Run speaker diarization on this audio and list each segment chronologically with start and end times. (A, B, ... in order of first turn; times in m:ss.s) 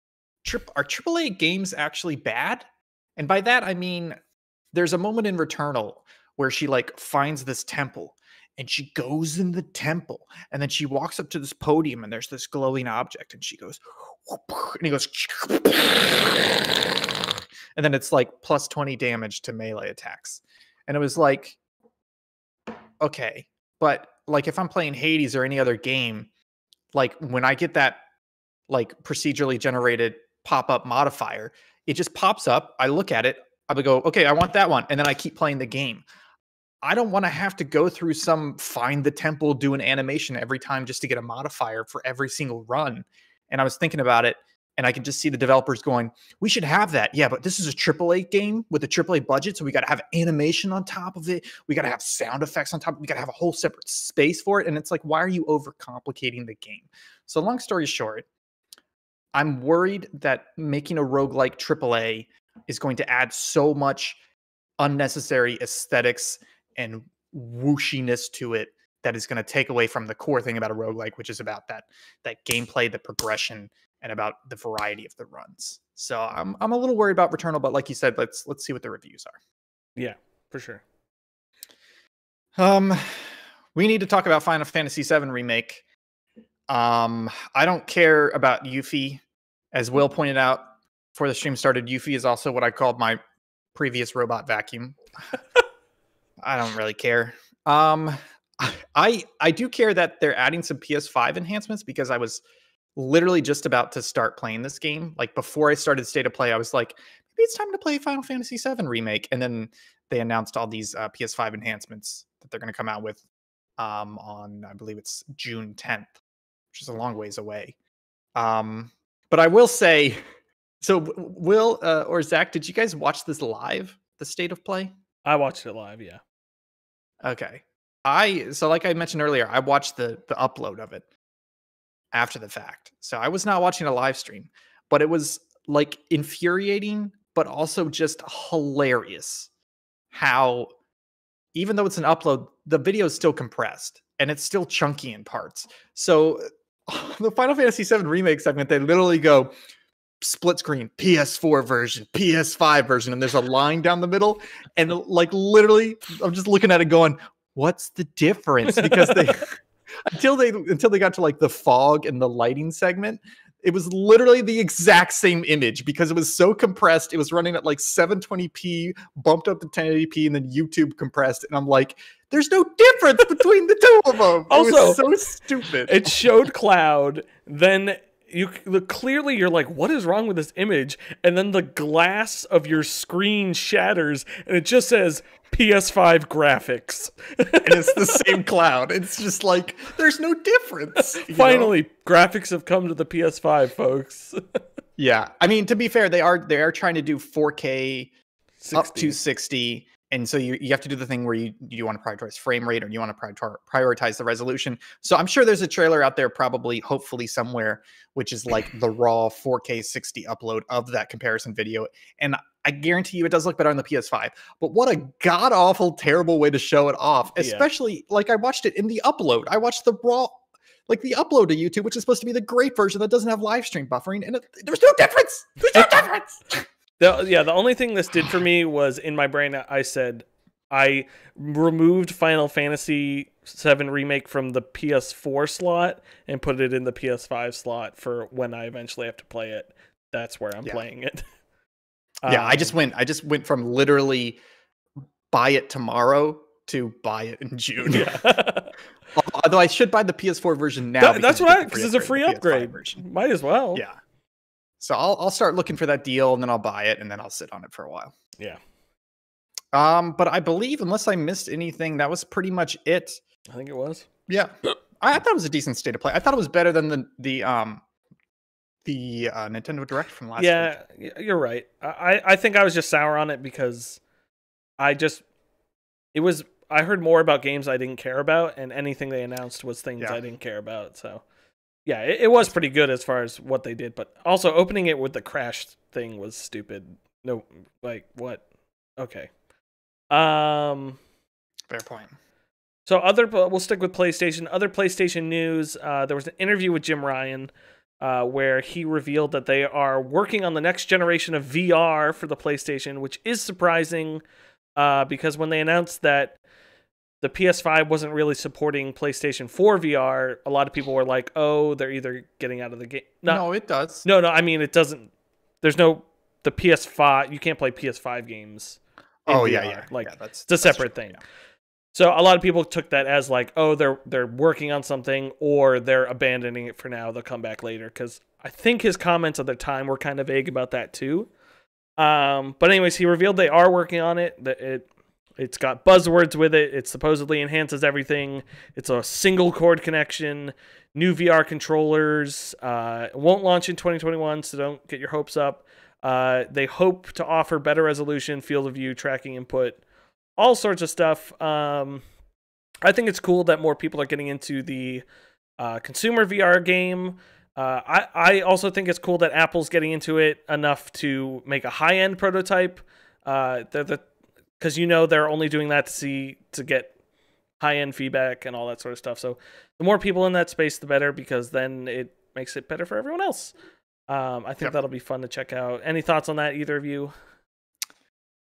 0:00.4-0:02.6 A
0:03.2-0:04.2 A
0:04.7-0:16.9 A
0:17.8-0:21.6 A
0:23.0-0:26.3 A
0:26.9-0:28.0 A
0:28.7-0:36.0 A
0:36.8-0:58.3 A
0:59.3-1:04.2 A
1:04.8-1:19.4 A
1:20.0-1:20.8 B
1:22.6-1:25.8 A
1:26.7-1:29.2 A
1:29.7-1:33.2 A
1:33.7-1:35.0 A
1:36.4-1:42.4 A
1:43.0-1:53.2 A
1:53.8-1:56.2 A
1:56.7-1:57.8 A
1:58.4-2:00.2 A
2:00.8-2:04.9 A
2:05.2-2:06.2 B
2:07.2-2:11.0 A
2:12.1-2:19.5 A
2:20.1-2:20.7 A
2:21.6-2:29.5 A
2:30.2-2:39.5 A
2:38.7-2:39.4 B
2:40.1-2:56.1 A
2:54.5-2:55.1 B
2:55.8-3:08.4 B
3:07.6-3:11.8 A
3:11.0-3:14.6 B
3:15.0-3:18.1 A
3:18.6-3:19.2 B
3:18.7-3:46.6 A
3:37.4-3:37.7 B
3:45.6-3:46.0 B
3:47.0-4:01.2 B
4:02.2-4:02.8 B
4:02.3-4:04.4 A
4:05.3-4:08.2 A
4:07.9-4:08.8 B
4:09.1-4:13.0 A
4:11.0-4:13.8 B
4:14.8-4:18.2 A
4:19.7-4:23.2 A
4:23.5-4:24.1 B
4:24.3-4:27.8 A
4:28.8-4:30.8 A
4:30.4-4:34.0 B
4:34.8-4:35.2 B
4:36.1-4:41.2 B
4:41.8-4:48.4 B
4:49.0-4:49.3 B
4:50.1-4:51.0 B
4:51.7-4:52.1 A
4:52.9-5:04.2 B
5:04.8-5:06.4 B
5:07.2-5:13.4 B
5:13.3-5:14.1 A
5:14.0-5:15.1 B
5:15.6-5:21.2 B
5:19.3-5:21.2 A
5:21.9-5:31.3 B
5:32.0-5:49.8 B
5:50.4-5:52.0 B
5:52.8-5:55.0 B
5:55.6-6:04.0 B
6:04.6-6:06.9 B
6:07.6-6:13.5 B
6:14.1-6:17.1 B